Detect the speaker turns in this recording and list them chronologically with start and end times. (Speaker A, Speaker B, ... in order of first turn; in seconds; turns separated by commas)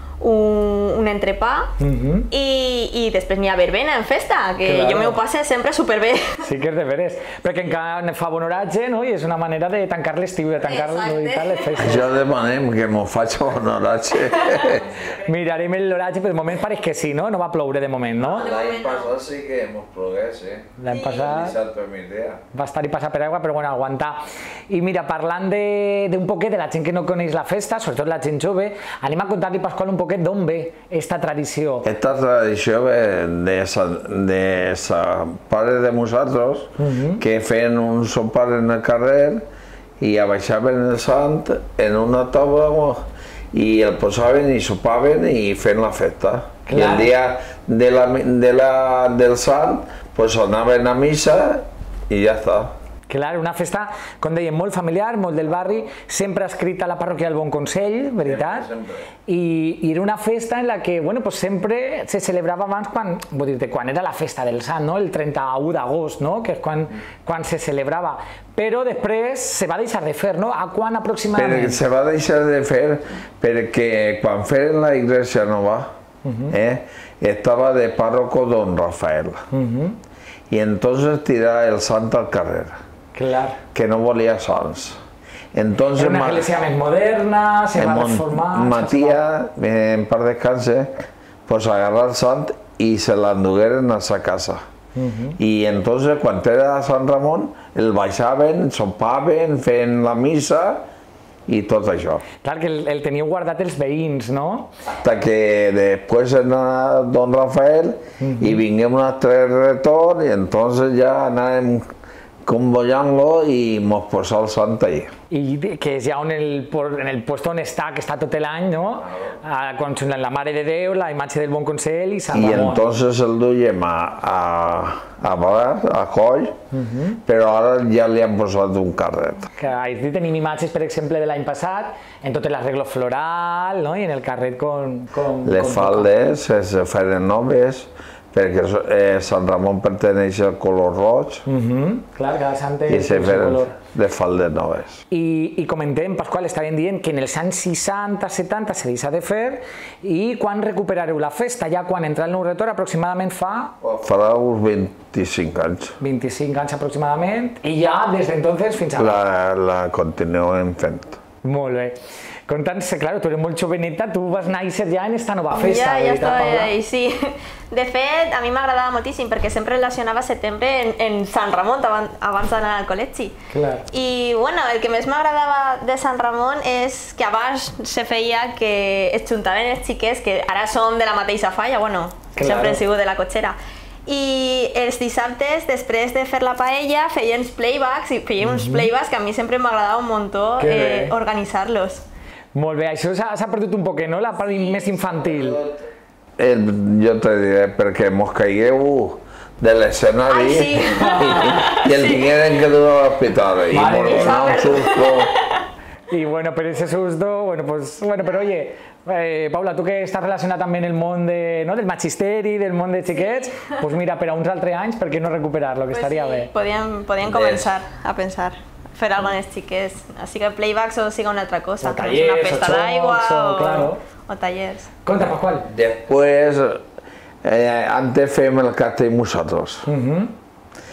Speaker A: 0.2-1.7, Speaker B: 1.8-2.3, Speaker A: 2.3-6.4, Speaker B: 4.6-5.2, Speaker B: 6.4-12.0, Speaker A: 10.6-12.0, Speaker C: 11.8-14.9, Speaker B: 15.2-18.5, Speaker A: 18.3-19.1, Speaker C: 18.4-22.4, Speaker B: 20.8-21.6, Speaker A: 20.9-21.2, Speaker B: 22.5-31.9, Speaker C: 31.8-39.5, Speaker B: 36.8-37.2, Speaker C: 40.0-52.7, Speaker B: 46.7-47.1, Speaker B: 53.1-58.7, Speaker C: 58.2-59.1, Speaker B: 59.3-71.8, Speaker C: 71.3-75.9, Speaker B: 76.2-76.6, Speaker C: 76.5-79.5, Speaker B: 79.5-80.0, Speaker C: 80.5-82.8, Speaker B: 83.1-83.6, Speaker C: 83.7-85.0, Speaker C: 85.5-86.5, Speaker B: 86.0-89.2, Speaker C: 87.8-94.6, Speaker B: 95.0-95.4, Speaker C: 95.4-100.9, Speaker C: 101.5-102.2, Speaker B: 102.4-104.7, Speaker C: 105.0-111.9, Speaker B: 108.2-108.6, Speaker C: 112.5-115.1, Speaker B: 115.3-122.8, Speaker C: 122.3-126.6, Speaker B: 126.7-127.2, Speaker C: 127.2-129.5, Speaker B: 129.6-136.1, Speaker C: 135.4-141.4, Speaker B: 141.5-143.8, Speaker C: 142.9-145.0, Speaker B: 145.1-153.8, Speaker C: 153.8-156.0, Speaker B: 156.0-159.2, Speaker C: 159.0-161.2, Speaker B: 161.4-166.7, Speaker A: 165.5-173.3, Speaker B: 173.5-173.9, Speaker A: 173.9-192.1, Speaker B: 182.4-182.8, Speaker B: 188.4-188.9, Speaker B: 190.6-191.2, Speaker B: 192.6-195.6, Speaker C: 195.2-195.8, Speaker C: 196.4-205.3, Speaker A: 200.3-202.4, Speaker B: 201.0-201.7, Speaker B: 203.7-204.9, Speaker A: 204.0-205.3, Speaker B: 206.1-216.5, Speaker A: 215.9-224.9, Speaker C: 217.2-217.7, Speaker B: 221.8-224.0, Speaker B: 225.1-225.7, Speaker C: 225.7-226.8, Speaker C: 227.4-229.9, Speaker B: 229.9-230.3